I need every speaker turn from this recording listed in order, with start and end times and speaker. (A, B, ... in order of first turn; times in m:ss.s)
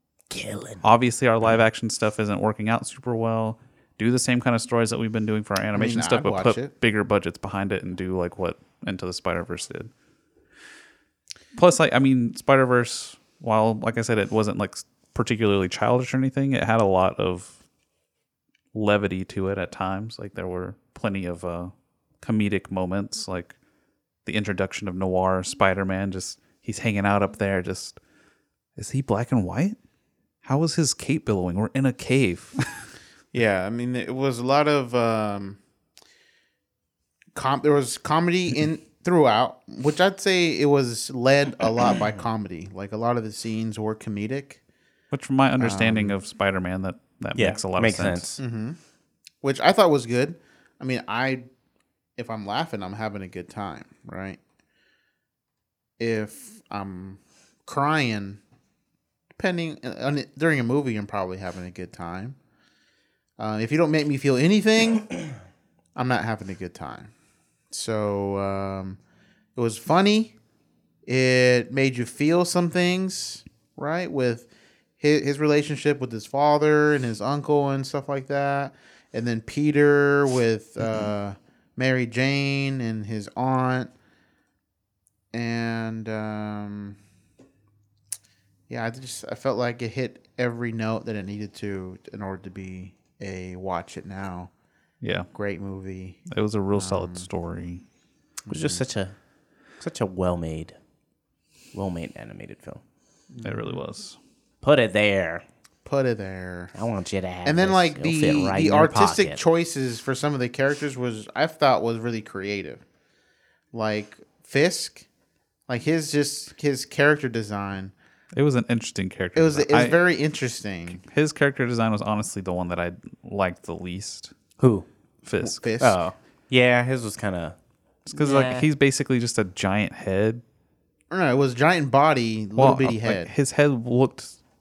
0:00.3-0:00.8 A
0:00.8-0:09.9 B
0:05.7-0:06.7 C
0:11.6-0:17.6 B
0:18.7-0:23.5 B
0:24.2-0:28.0 B
0:28.8-0:29.8 B
0:30.4-0:32.8 B
0:33.3-0:35.6 C
0:37.3-0:44.6 C
0:45.1-0:48.3 B
0:45.6-0:46.2 C
0:47.4-0:48.4 A
0:48.4-0:48.8 C
0:49.4-0:51.4 C
0:52.2-0:54.4 C
0:56.0-0:58.4 C
0:59.4-1:02.4 C
1:03.4-1:05.3 C
1:06.0-1:07.1 C
1:07.7-1:09.0 C
1:09.6-1:10.3 C
1:11.0-1:14.5 C
1:15.0-1:23.9 C
1:25.3-1:27.0 C
1:28.7-1:34.5 C
1:35.0-1:35.3 B
1:35.3-1:37.3 C
1:36.3-1:37.8 B
1:38.4-1:38.8 C
1:38.5-1:39.1 A
1:39.8-1:40.8 A
1:41.7-1:42.8 A
1:43.3-1:43.8 C
1:43.4-1:44.2 B
1:44.6-1:45.4 A
1:45.8-1:46.7 C
1:46.7-1:49.4 A
1:47.4-1:52.8 C
1:53.7-1:55.0 C
1:55.7-1:57.9 C
1:58.3-2:00.0 B
1:59.3-2:01.0 C
2:01.0-2:04.3 B
2:04.6-2:04.9 A
2:05.2-2:05.6 B
2:05.4-2:06.0 C
2:05.8-2:07.6 A
2:08.1-2:10.4 B
2:08.2-2:08.7 A
2:11.1-2:13.3 C
2:12.6-2:14.3 B